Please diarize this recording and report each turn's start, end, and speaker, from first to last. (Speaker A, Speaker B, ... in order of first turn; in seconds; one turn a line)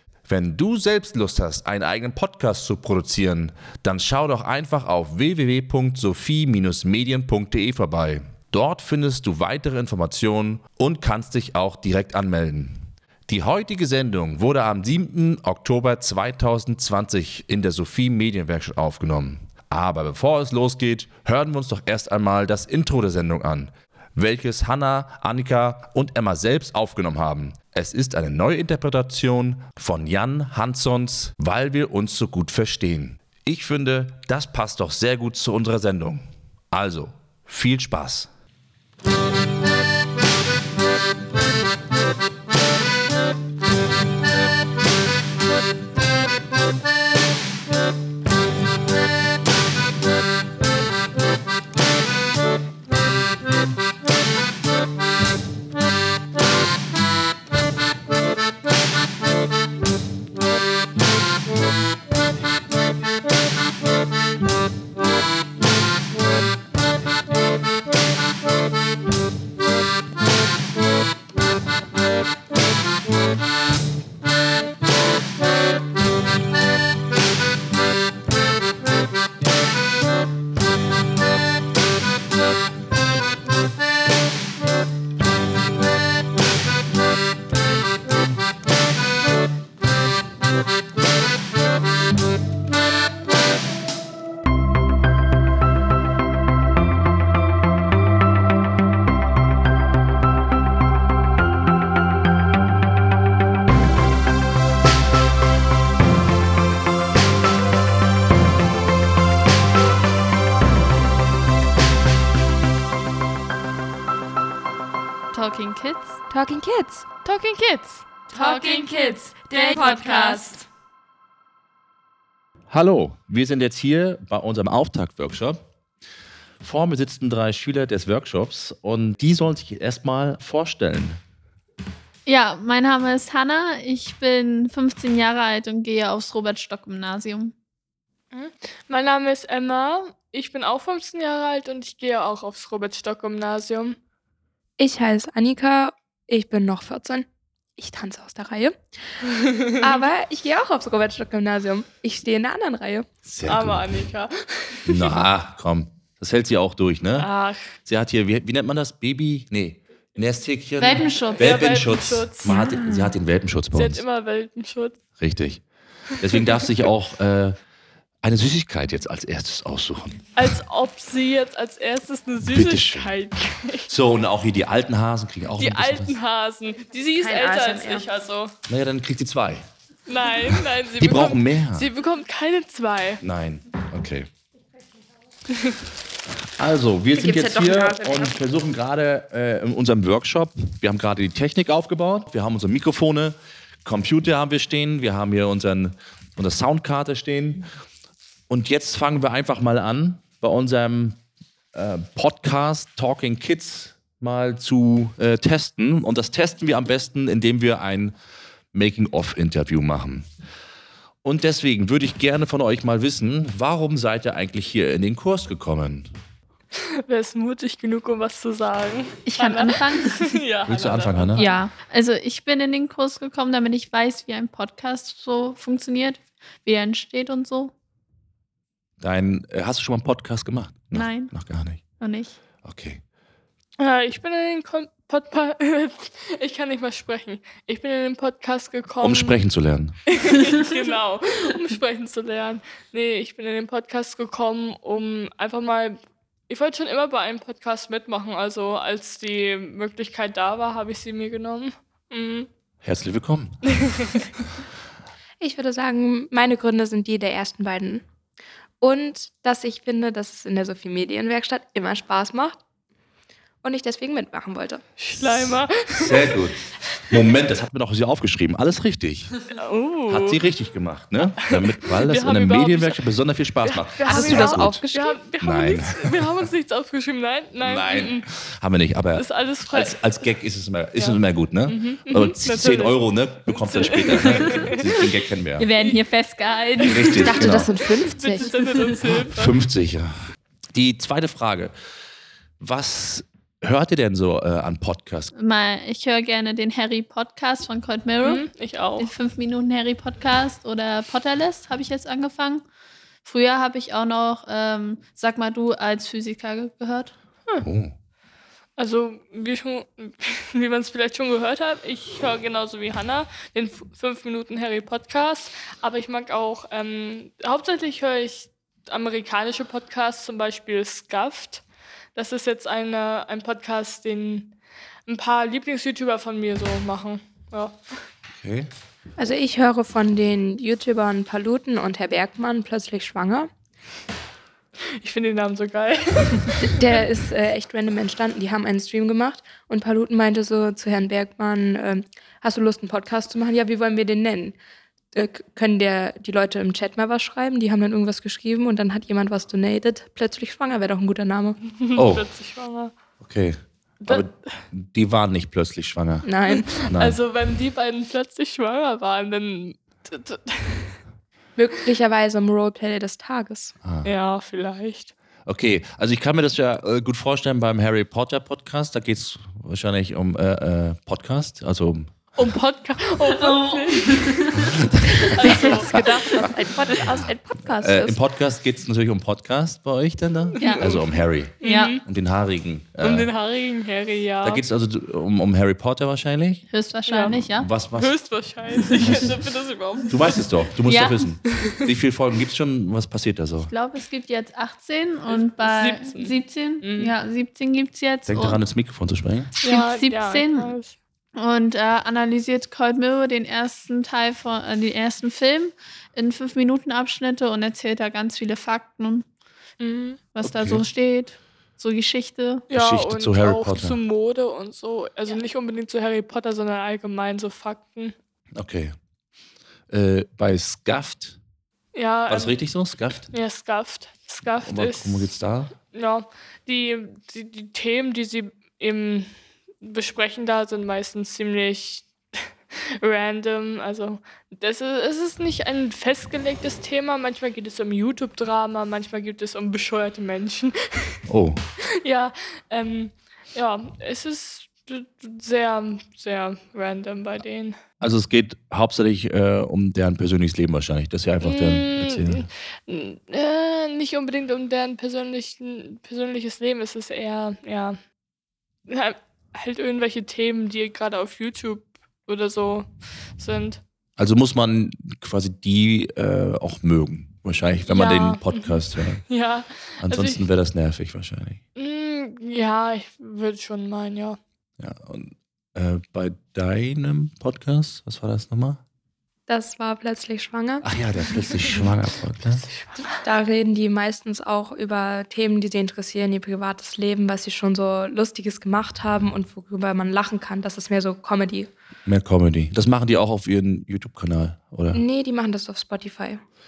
Speaker A: 0.2-38.3
Speaker B: 115.3-116.2
Speaker C: 116.3-117.1
Speaker D: 117.2-120.7
Speaker B: 118.3-119.0
Speaker B: 119.5-120.5
Speaker C: 119.5-120.0
Speaker A: 122.7-125.6
Speaker A: 126.6-131.2
Speaker B: 132.2-137.5
Speaker D: 138.3-144.0
Speaker C: 144.8-147.2
Speaker C: 147.8-148.8
Speaker C: 149.8-153.1
Speaker A: 153.2-153.8
Speaker D: 153.5-155.3
Speaker A: 154.9-157.3
Speaker D: 157.2-157.6
Speaker A: 157.8-164.0
Speaker B: 160.8-161.6
Speaker D: 161.3-162.6
Speaker C: 162.4-163.1
Speaker D: 163.7-165.0
Speaker A: 165.2-165.6
Speaker A: 166.2-167.6
Speaker D: 166.2-166.7
Speaker A: 168.2-170.3
Speaker D: 170.3-173.9
Speaker A: 172.4-173.1
Speaker A: 173.9-176.2
Speaker D: 175.6-178.5
Speaker C: 177.1-178.1
Speaker A: 178.7-179.6
Speaker D: 180.1-183.2
Speaker A: 181.0-181.9
Speaker A: 183.2-184.3
Speaker A: 186.5-197.6
Speaker C: 187.2-188.4
Speaker A: 198.5-201.2
Speaker A: 201.7-208.1
Speaker A: 208.7-210.3
Speaker A: 211.2-216.1
Speaker D: 217.0-221.6
Speaker B: 219.2-220.3
Speaker A: 220.7-221.5
Speaker B: 221.3-227.7
Speaker A: 229.0-231.8
Speaker B: 230.9-231.3
Speaker B: 232.0-232.4
Speaker A: 232.6-233.0
Speaker D: 233.8-239.4
Speaker A: 239.0-239.9
Speaker D: 240.1-252.5
Speaker A: 252.8-253.6
Speaker D: 253.7-254.3
Speaker C: 255.4-258.0
Speaker C: 258.8-262.6
Speaker C: 263.6-264.8
Speaker D: 265.0-266.4
Speaker A: 266.0-269.3
Speaker D: 269.5-270.4
Speaker A: 270.1-274.8
Speaker D: 271.4-273.0
Speaker D: 273.6-278.3
Speaker C: 274.0-275.2
Speaker A: 275.4-276.2
Speaker A: 277.6-285.7
Speaker D: 279.1-280.3
Speaker D: 280.9-285.1
Speaker B: 285.6-287.4
Speaker D: 285.8-286.0
Speaker D: 286.8-289.6
Speaker A: 286.8-287.7
Speaker C: 287.2-288.5
Speaker A: 289.2-290.1
Speaker A: 290.7-291.7
Speaker A: 292.6-295.3
Speaker B: 295.3-302.6
Speaker D: 298.2-299.1
Speaker B: 303.2-307.1
Speaker A: 307.6-307.9
Speaker D: 308.8-321.6
Speaker D: 322.1-324.5
Speaker D: 325.1-327.8
Speaker A: 328.3-328.7
Speaker C: 329.2-333.5
Speaker D: 335.0-336.8
Speaker C: 336.6-344.6
Speaker C: 345.1-351.6
Speaker D: 351.7-352.9
Speaker A: 351.9-352.2
Speaker A: 353.2-357.2
Speaker D: 354.0-354.6
Speaker C: 356.2-356.7
Speaker D: 356.5-361.0
Speaker C: 361.6-363.7
Speaker A: 363.8-364.1
Speaker D: 364.0-365.1
Speaker A: 365.4-372.3
Speaker D: 372.4-377.0
Speaker B: 373.5-374.4
Speaker A: 374.5-375.9
Speaker C: 375.4-378.2
Speaker A: 377.8-383.3
Speaker D: 380.5-382.0
Speaker B: 380.6-380.9
Speaker B: 381.6-382.0
Speaker D: 383.0-384.6
Speaker A: 384.4-386.6
Speaker B: 386.7-387.7
Speaker D: 387.1-387.4
Speaker A: 387.3-388.1
Speaker D: 387.9-390.5
Speaker A: 388.9-389.3
Speaker A: 390.1-393.7
Speaker B: 390.8-391.3
Speaker D: 391.4-391.8
Speaker B: 393.6-398.6
Speaker D: 395.3-397.1
Speaker A: 398.2-399.5
Speaker B: 399.6-400.8
Speaker D: 399.6-401.0
Speaker B: 401.4-409.2
Speaker D: 409.8-410.2
Speaker B: 410.3-412.6
Speaker A: 410.4-410.8
Speaker D: 412.7-418.1
Speaker A: 412.7-414.0
Speaker A: 418.6-418.9
Speaker A: 419.9-421.4
Speaker D: 421.9-422.6
Speaker A: 422.3-423.3
Speaker D: 423.3-425.3
Speaker A: 424.6-425.7
Speaker D: 425.9-429.3
Speaker D: 429.8-441.2
Speaker A: 441.3-441.6
Speaker D: 442.0-447.8
Speaker A: 448.0-452.4
Speaker D: 451.4-458.0
Speaker D: 458.9-463.8
Speaker A: 464.2-469.2
Speaker D: 467.9-470.5
Speaker A: 470.0-471.6
Speaker D: 471.8-474.4
Speaker A: 474.8-478.8
Speaker C: 479.5-480.9
Speaker A: 480.8-482.6
Speaker D: 482.6-483.2
Speaker C: 483.2-491.7
Speaker A: 492.1-495.0
Speaker C: 494.9-496.4